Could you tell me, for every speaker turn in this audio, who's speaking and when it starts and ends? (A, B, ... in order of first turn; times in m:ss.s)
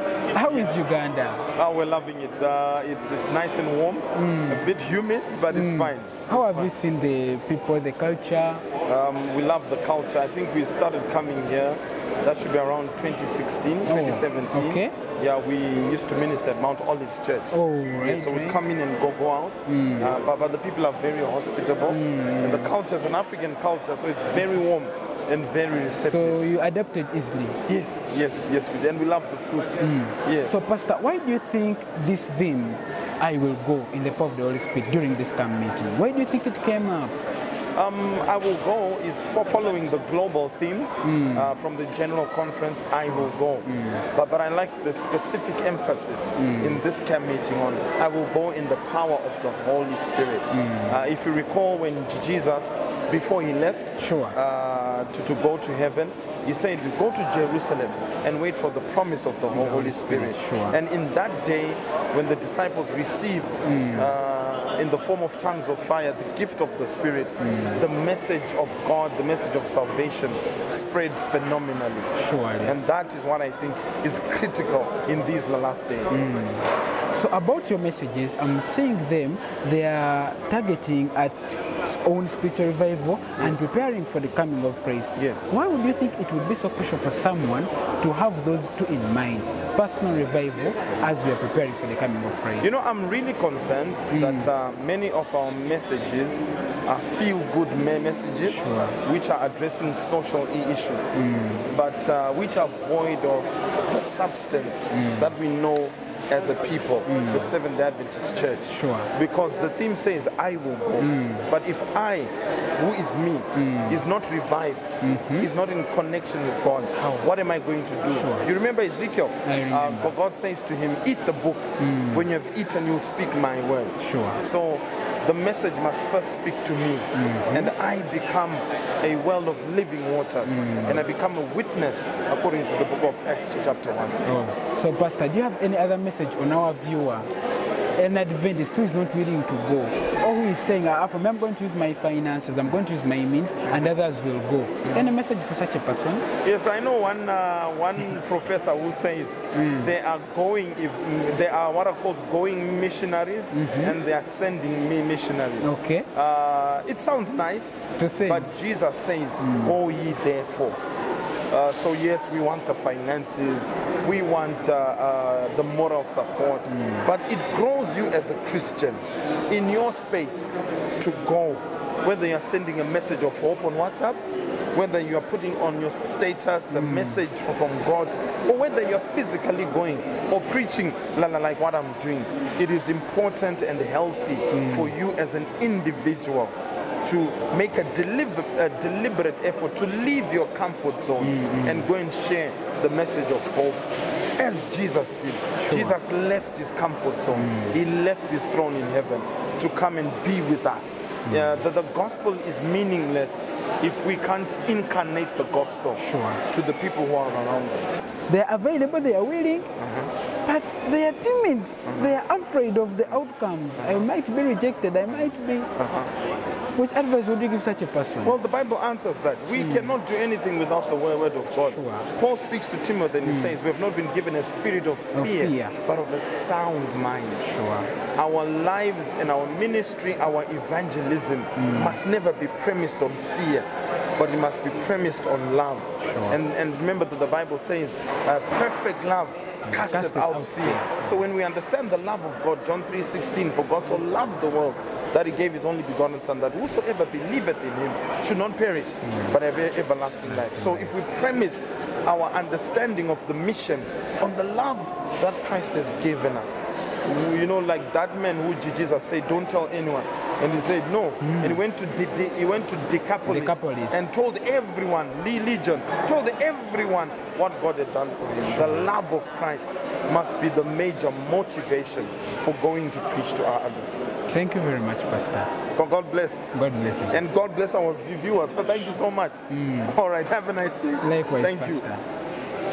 0:00.3-0:01.4 A
0:00.4-0:00.8 B
0:01.5-0:06.7 B
0:04.1-0:04.7 A
0:05.5-0:08.6 A
0:08.8-0:26.4 B
0:13.9-0:15.0 A
0:17.5-0:18.6 A
0:19.7-0:20.1 A
0:21.9-0:22.7 A
0:24.3-0:24.7 A
0:25.9-0:27.6 A
0:27.7-0:30.5 B
0:29.8-0:37.2 A
0:37.8-1:12.1 B
0:41.0-0:41.5 A
0:43.0-0:44.0 A
0:46.4-0:46.8 A
0:50.5-0:51.0 A
0:54.0-0:54.4 A
0:59.5-1:00.8 A
1:03.6-1:04.1 A
1:07.4-1:07.9 A
1:12.1-1:12.8 A
1:12.6-1:16.2 B
1:16.1-1:32.7 A
1:23.4-1:23.6 B
1:25.2-1:25.5 B
1:32.6-1:41.2 B
1:34.1-1:34.5 A
1:38.4-1:39.0 A
1:41.2-1:41.7 A
1:41.7-2:14.2 B
1:44.9-1:45.3 A
1:47.1-1:47.5 A
1:48.7-1:49.1 A
1:51.0-1:51.5 A
1:53.5-1:54.0 A
1:55.0-1:55.5 A
1:57.0-1:57.3 A
1:58.1-1:58.5 A
1:59.4-2:00.1 A
2:01.8-2:02.3 A
2:04.0-2:04.4 A
2:07.1-2:07.7 A
2:10.4-2:11.0 A
2:14.2-2:17.3 A
2:18.0-2:26.3 A
2:26.4-2:40.8 B
2:29.5-2:29.9 A
2:33.5-2:34.0 A
2:35.6-2:36.1 A
2:38.0-2:38.5 A
2:39.4-2:39.8 A
2:41.5-2:54.2 B
2:46.7-2:47.1 A
2:54.7-3:13.9 B
2:56.7-2:57.2 A
3:04.5-3:04.9 A
3:11.2-3:11.9 A
3:14.4-3:28.0 B
3:15.6-3:16.0 A
3:17.3-3:17.8 A
3:21.2-3:21.6 A
3:26.0-3:26.4 A
3:28.3-3:29.7 A
3:29.8-3:30.1 B
3:30.4-3:35.7 A
3:31.8-3:32.2 B
3:33.8-3:34.0 B
3:35.8-3:36.1 B
3:36.8-3:38.4 A
3:38.2-3:47.4 B
3:39.6-3:40.0 A
3:41.6-3:42.1 A
3:43.2-3:43.6 A
3:45.1-3:45.8 A
3:47.4-3:47.9 A
3:48.0-4:34.1 B
3:51.6-3:52.0 A
3:56.0-3:56.4 A
3:59.7-4:01.2 A
4:09.0-4:09.4 A
4:10.3-4:10.9 A
4:21.2-4:21.6 A
4:23.3-4:24.1 A
4:28.4-4:28.9 A
4:34.3-4:35.6 A
4:35.7-4:36.5 B
4:36.5-4:37.3 A
4:37.1-4:41.8 B
4:39.5-4:40.0 A
4:41.0-4:42.0 A